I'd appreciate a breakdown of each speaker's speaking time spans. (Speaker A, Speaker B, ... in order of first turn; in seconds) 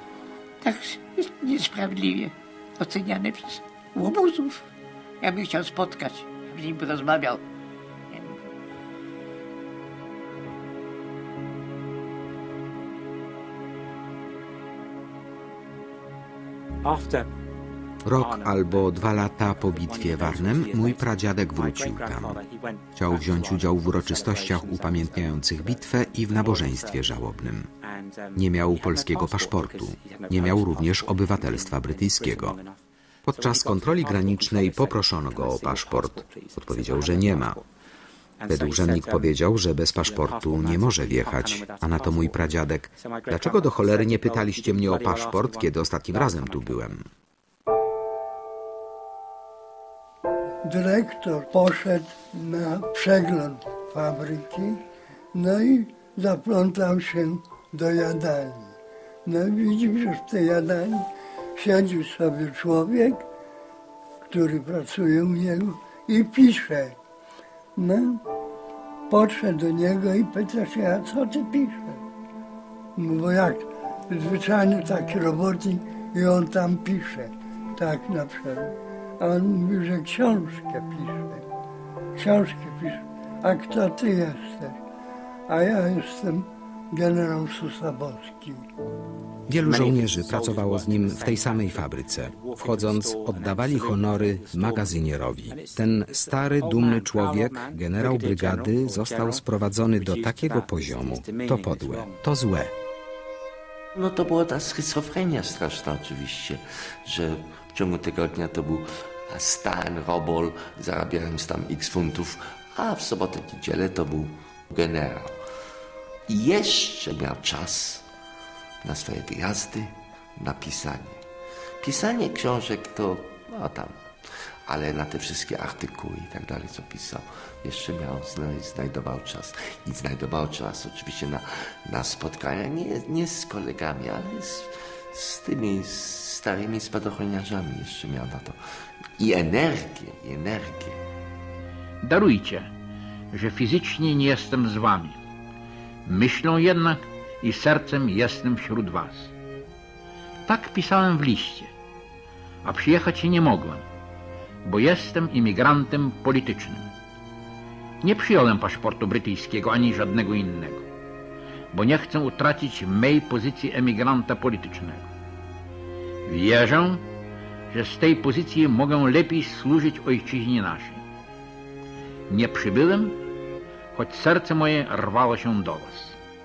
Speaker A: 0.6-4.7, 5.2-7.4, 8.1-8.4
Speaker B: 16.8-17.3, 18.1-27.1, 27.8-37.7, 38.4-39.4, 40.0-42.4, 42.9-46.9, 89.6-102.2
Speaker C: 18.0-22.4, 22.9-27.7, 28.3-32.6, 33.2-37.6, 38.5-47.1, 89.5-102.7
Speaker D: 50.6-54.8, 55.3-63.2, 64.3-67.0, 67.8-68.2, 69.1-72.0, 73.0-81.4, 82.2-84.8, 85.5-88.7
Speaker E: 103.9-115.4, 116.3-118.0, 118.8-121.2, 121.8-124.0, 124.7-138.6, 139.2-141.0
Speaker F: 142.0-142.7, 143.3-145.2, 146.1-149.3, 150.5-151.7, 152.6-153.8, 154.6-156.9, 158.0-160.8, 161.7-165.1, 166.2-167.0, 167.7-171.0, 172.3-173.2, 173.9-176.2